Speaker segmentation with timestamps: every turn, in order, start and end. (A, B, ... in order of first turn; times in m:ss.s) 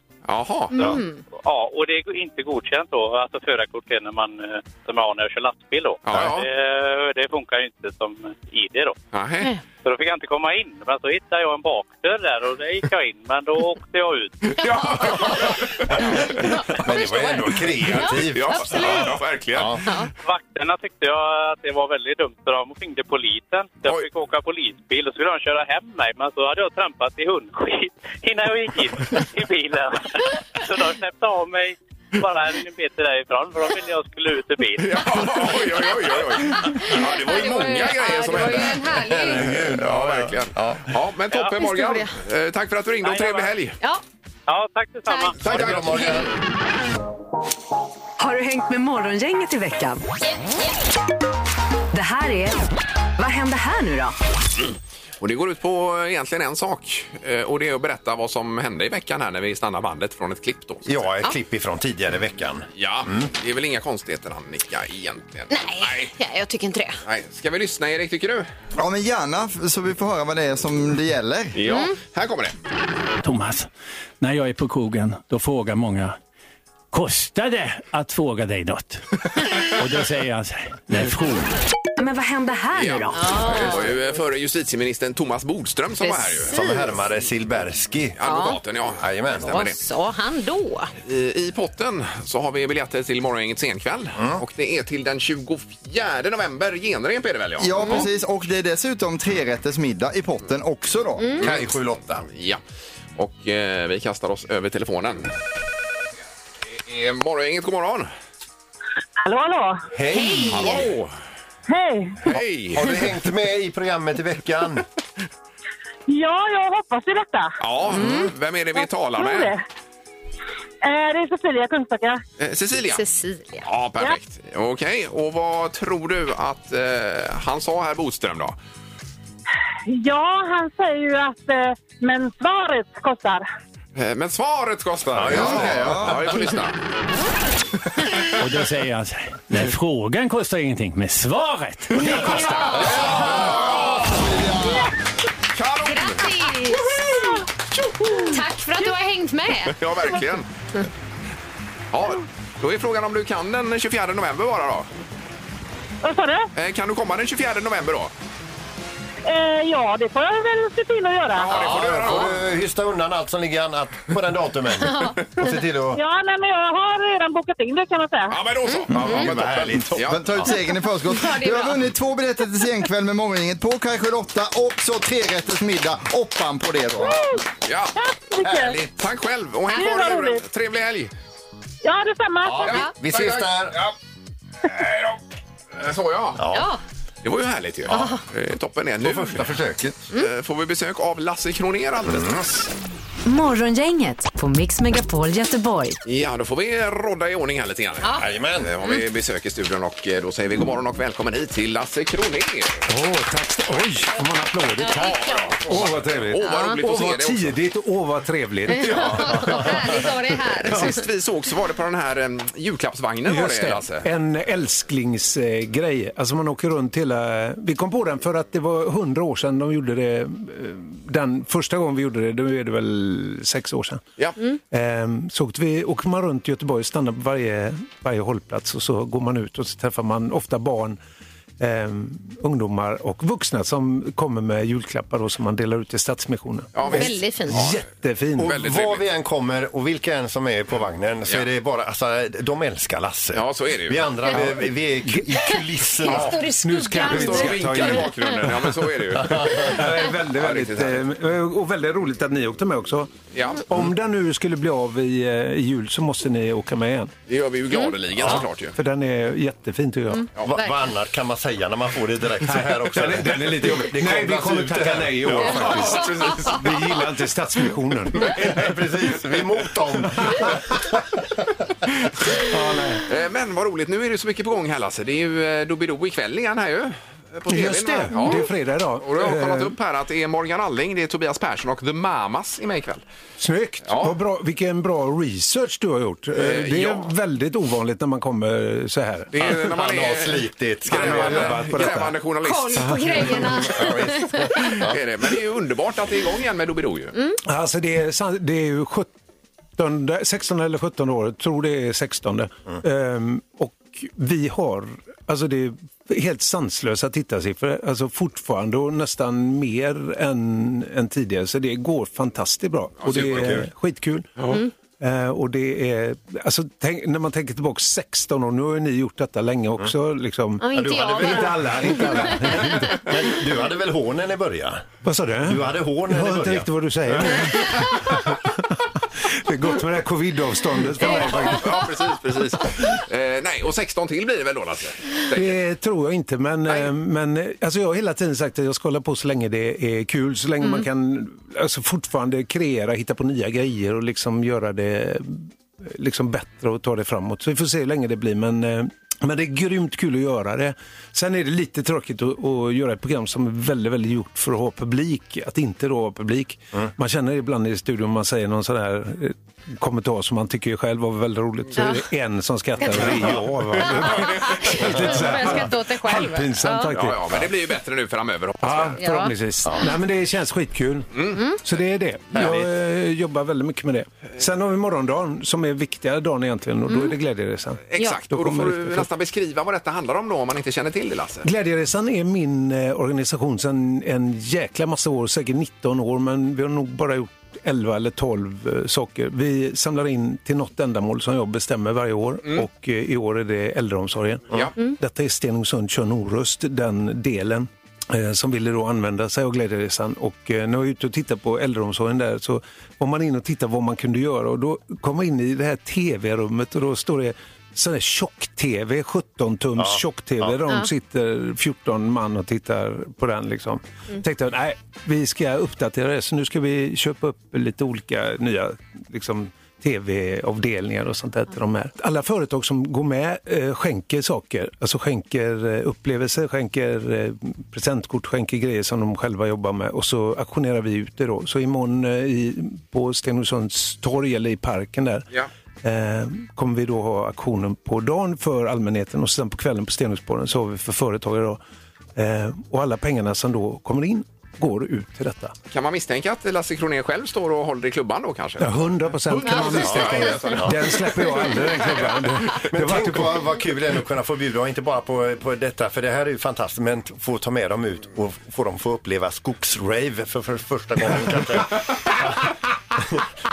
0:00.3-0:01.0 A
0:00.7-0:01.2 B
0:01.4-0:09.0 C
0:06.0-0:06.5 A
0:09.1-0:09.5 A
0:09.8-0:14.4 C
0:14.4-0:16.3 A
0:14.6-0:15.4 B
0:16.4-0:19.1 B
0:16.7-0:19.8 D
0:18.0-0:19.8 A
0:19.8-0:20.1 B
0:20.2-0:35.1 C
0:34.8-0:38.8 A
0:36.6-0:39.5 B
0:38.8-0:40.9 D
0:39.3-0:43.8 A
0:41.5-0:42.1 B
0:43.0-0:43.5 C
0:44.5-0:45.4 C
0:45.1-0:45.3 B
0:45.4-0:46.2 A
0:45.4-0:46.3 D
0:48.2-0:50.0 E
0:51.9-0:52.6 E
0:53.2-0:54.2 E
0:55.2-1:01.0 A
1:00.8-1:03.3 D
1:02.8-1:06.1 A
1:05.5-1:07.0 B
1:07.0-1:08.5 A
1:08.8-1:11.6 F
1:11.5-1:12.5 A
1:11.6-1:12.0 B
1:13.2-1:13.7 G
1:14.2-1:16.2 G
1:16.9-1:19.0 G
1:19.6-1:21.5 G
1:22.0-1:23.2 E
1:22.7-1:26.5 A
1:23.1-1:23.9 B
1:26.0-1:26.8 B
1:26.5-1:28.2 D
1:28.2-1:29.8 A
1:28.2-1:28.6 B
1:29.0-1:29.6 D
1:29.5-1:30.9 B
1:31.0-1:38.1 A
1:34.2-1:34.4 D
1:37.6-1:41.3 F
1:37.8-1:38.1 B
1:41.4-1:42.2 D
1:41.4-1:41.6 A
1:42.2-1:42.6 A
1:43.2-1:45.3 A
1:46.7-1:48.1 A
1:49.2-1:49.8 H
1:49.9-1:50.9 D
1:50.1-1:50.8 B
1:50.5-1:51.1 A
1:51.7-1:52.2 H
1:52.2-1:52.9 A
1:52.3-1:54.8 D
1:56.1-1:57.5 H
1:57.6-1:59.5 A
1:57.9-1:58.3 B
1:58.8-1:59.6 H
2:00.8-2:02.2 H
2:02.4-2:03.0 A
2:02.9-2:03.6 B
2:03.6-2:08.6 A
2:09.9-2:13.4 H
2:14.0-2:16.8 A
2:15.1-2:16.4 D
2:15.3-2:16.4 F
2:18.4-2:22.6 G
2:22.0-2:24.2 A
2:22.3-2:22.6 H
2:22.3-2:22.9 B
2:22.9-2:23.4 D
2:23.0-2:24.9 F
2:25.5-2:26.3 A
2:25.8-2:27.2 B
2:27.0-2:27.4 H
2:28.0-2:28.8 H
2:28.2-2:29.8 B
2:29.7-2:30.5 A
2:31.9-2:34.9 A
2:36.0-2:36.5 H
2:36.6-2:38.1 A
2:39.2-2:41.5 H
2:41.3-2:42.4 A
2:41.5-2:46.0 D
2:44.8-2:45.2 B
2:45.9-2:48.4 H
2:48.3-2:50.2 A
2:48.7-2:49.2 B
2:48.9-2:50.5 D
2:50.0-2:57.4 F
2:51.1-2:51.8 B
2:57.1-2:57.3 H
2:57.6-2:58.0 A
2:58.0-2:58.8 H
2:58.4-2:58.9 D
2:58.9-3:01.1 A
2:59.7-3:00.4 H
3:01.8-3:02.6 H
3:02.4-3:03.8 D
3:02.6-3:03.9 A
3:04.7-3:05.2 A
3:05.8-3:06.4 A
3:06.4-3:06.7 D
3:06.5-3:06.8 B
3:07.2-3:09.6 A
3:07.9-3:08.2 D
3:07.9-3:08.2 B
3:09.0-3:09.9 D
3:10.1-3:12.6 A
3:12.0-3:12.5 D
3:13.2-3:16.0 E
3:16.0-3:22.8 A
3:18.2-3:18.7 D
3:22.9-3:29.7 I
3:24.8-3:25.5 B
3:25.0-3:27.6 A
3:26.4-3:26.8 B
3:28.7-3:31.0 B
3:28.9-3:29.8 D
3:30.6-3:34.1 A
3:33.2-3:44.0 I
3:44.7-3:51.0 I
3:51.6-3:58.6 I
3:56.7-3:57.8 A
3:56.9-3:57.6 B
3:58.4-4:06.4 D
3:58.4-3:59.0 A
4:03.3-4:04.6 A
4:05.4-4:08.4 B
4:06.4-4:08.7 I
4:06.9-4:09.8 A
4:09.1-4:09.7 D
4:09.4-4:13.1 I
4:10.3-4:11.0 A
4:13.3-4:13.6 A
4:13.7-4:17.1 I
4:17.3-4:18.8 A
4:18.3-4:20.3 I
4:20.1-4:20.7 B
4:20.4-4:26.0 D
4:22.4-4:28.8 I
4:25.3-4:27.0 A
4:28.4-4:30.8 D
4:30.0-4:30.5 I
4:32.4-4:33.0 I
4:33.1-4:43.0 A
4:37.5-4:39.8 I
4:43.4-4:49.6 I
4:43.8-4:44.1 A
4:46.3-4:47.1 A
4:49.3-4:53.4 A
4:49.4-4:52.0 D
4:50.9-4:52.2 I
4:52.4-4:54.8 B
4:52.8-4:53.1 I
4:53.2-4:55.0 D
4:54.6-4:57.1 A
4:57.4-4:59.1 I
4:59.8-5:14.3 I
5:13.0-5:13.5 A
5:13.1-5:13.7 D
5:15.0-5:23.0 I
5:20.6-5:22.9 B
5:20.7-5:24.9 D
5:25.0-5:28.6 I
5:25.4-5:27.5 D
5:29.3-5:31.8 I
5:31.0-5:35.6 A
5:31.0-5:31.7 B
5:35.3-6:07.5 I
5:36.7-5:36.9 A
6:01.8-6:02.0 B
6:02.8-6:03.1 B
6:03.8-6:06.9 B
6:06.9-6:09.0 A
6:08.6-6:19.1 I
6:09.0-6:09.3 B
6:11.1-6:11.4 A
6:12.3-6:12.6 D
6:16.9-6:17.1 B
6:17.9-6:21.5 A
6:21.4-7:15.2 I
6:49.8-6:50.6 D
7:15.8-7:21.6 I
7:22.2-7:25.5 I
7:25.7-7:32.2 A
7:28.6-7:33.4 I
7:29.8-7:30.8 D
7:32.7-7:42.4 D
7:41.1-7:42.2 I